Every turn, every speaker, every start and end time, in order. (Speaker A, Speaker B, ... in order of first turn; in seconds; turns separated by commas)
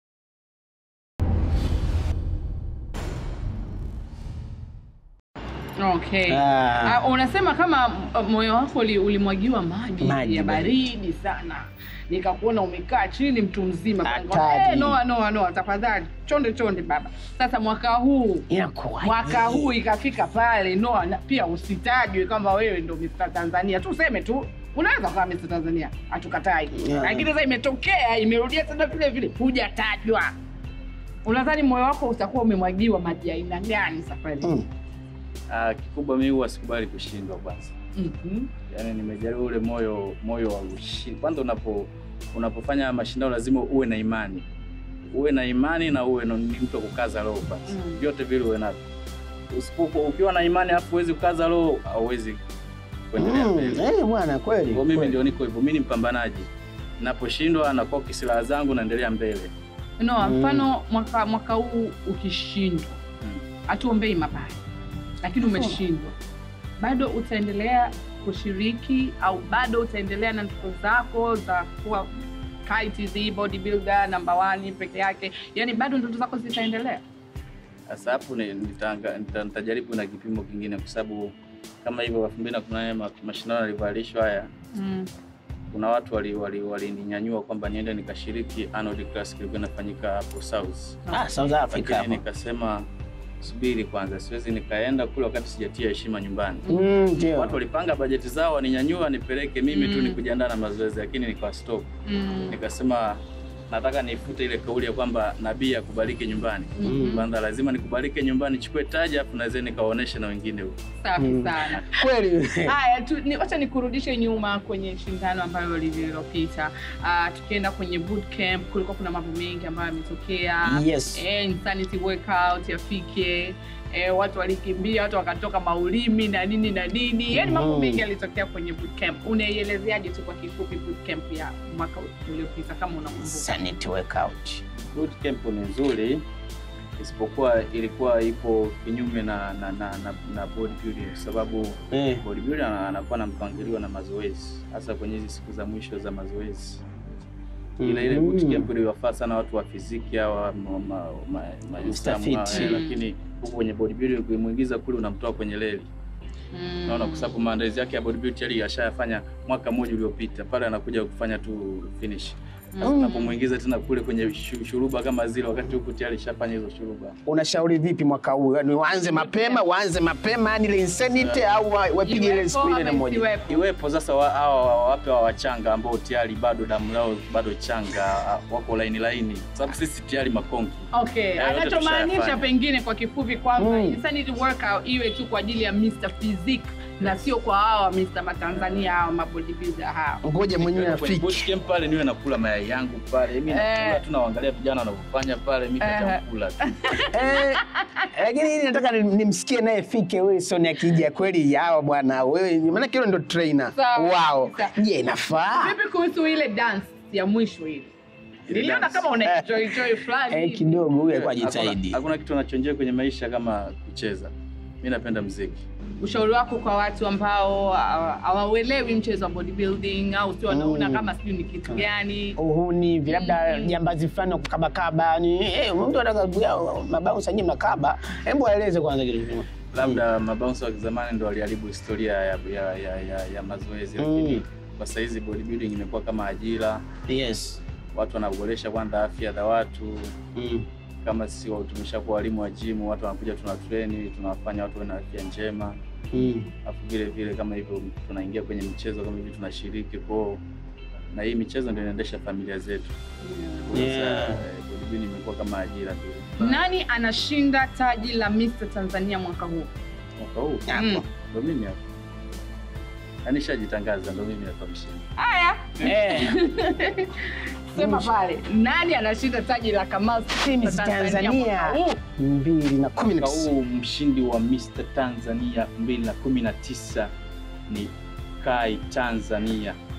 Speaker A: 5.8-18.5, Speaker B: 6.3-7.0, Speaker B: 10.0-10.7, Speaker B: 14.0-15.0, Speaker B: 18.5-19.7, Speaker A: 19.0-30.3, Speaker B: 26.7-27.3, Speaker A: 31.2-34.5, Speaker C: 35.5-37.7, Speaker A: 38.0-38.5, Speaker C: 38.7-44.5, Speaker C: 45.1-48.8, Speaker A: 47.7-48.0, Speaker C: 49.5-52.4, Speaker C: 53.1-53.8, Speaker B: 53.2-55.2, Speaker C: 54.7-56.5, Speaker C: 57.0-59.5, Speaker A: 60.0-63.0, Speaker B: 60.2-60.7, Speaker A: 63.7-64.6, Speaker A: 65.2-66.1, Speaker B: 65.5-65.8, Speaker A: 66.8-72.1, Speaker A: 72.7-77.0, Speaker C: 77.9-81.3, Speaker C: 81.8-84.5, Speaker A: 84.7-85.1, Speaker C: 85.7-91.0, Speaker B: 91.1-92.2, Speaker C: 91.7-92.9, Speaker C: 93.4-96.7, Speaker B: 96.7-97.6, Speaker C: 97.3-101.9, Speaker A: 99.7-100.2, Speaker A: 102.1-102.6, Speaker C: 102.5-110.8, Speaker A: 106.8-107.2, Speaker B: 106.8-107.2, Speaker A: 111.0-112.0, Speaker B: 111.2-112.7, Speaker A: 112.7-133.5, Speaker B: 120.6-121.2, Speaker B: 127.3-128.0, Speaker B: 133.2-134.6, Speaker C: 134.9-136.2, Speaker C: 137.0-146.8, Speaker B: 141.9-142.2, Speaker B: 147.8-148.7, Speaker C: 147.8-155.9, Speaker B: 151.8-152.8, Speaker A: 152.5-153.0, Speaker A: 156.5-157.3, Speaker C: 156.9-167.2, Speaker A: 162.8-163.3, Speaker B: 162.8-163.2, Speaker B: 167.3-173.3, Speaker A: 169.0-169.6, Speaker C: 171.2-171.4, Speaker A: 172.0-173.6, Speaker C: 173.5-182.5, Speaker A: 180.9-190.2, Speaker B: 183.6-184.0, Speaker C: 188.6-188.9, Speaker B: 190.2-191.5, Speaker C: 190.6-197.1, Speaker A: 193.5-194.0, Speaker A: 195.8-198.1, Speaker B: 197.1-197.6, Speaker B: 198.2-205.8, Speaker A: 203.7-204.7, Speaker A: 205.6-207.9, Speaker B: 208.5-209.8, Speaker A: 208.5-210.9, Speaker B: 210.3-212.0, Speaker C: 211.0-215.6, Speaker A: 216.0-222.4, Speaker B: 220.5-221.1, Speaker B: 222.4-230.0, Speaker A: 223.1-223.8, Speaker C: 229.7-236.8, Speaker B: 234.0-234.4, Speaker B: 237.1-237.6, Speaker C: 237.9-240.1, Speaker B: 240.4-240.7, Speaker C: 241.0-245.8, Speaker B: 246.1-246.5, Speaker C: 246.7-250.4, Speaker C: 251.1-252.9, Speaker A: 253.2-253.7, Speaker C: 253.7-256.6, Speaker B: 253.7-254.4, Speaker A: 256.4-259.7, Speaker C: 260.2-261.8, Speaker B: 260.7-261.0, Speaker A: 260.8-261.0, Speaker C: 263.2-265.0, Speaker A: 265.2-272.0, Speaker B: 265.8-266.4, Speaker B: 267.8-268.1, Speaker B: 270.4-273.5, Speaker C: 273.0-277.1, Speaker C: 277.7-279.8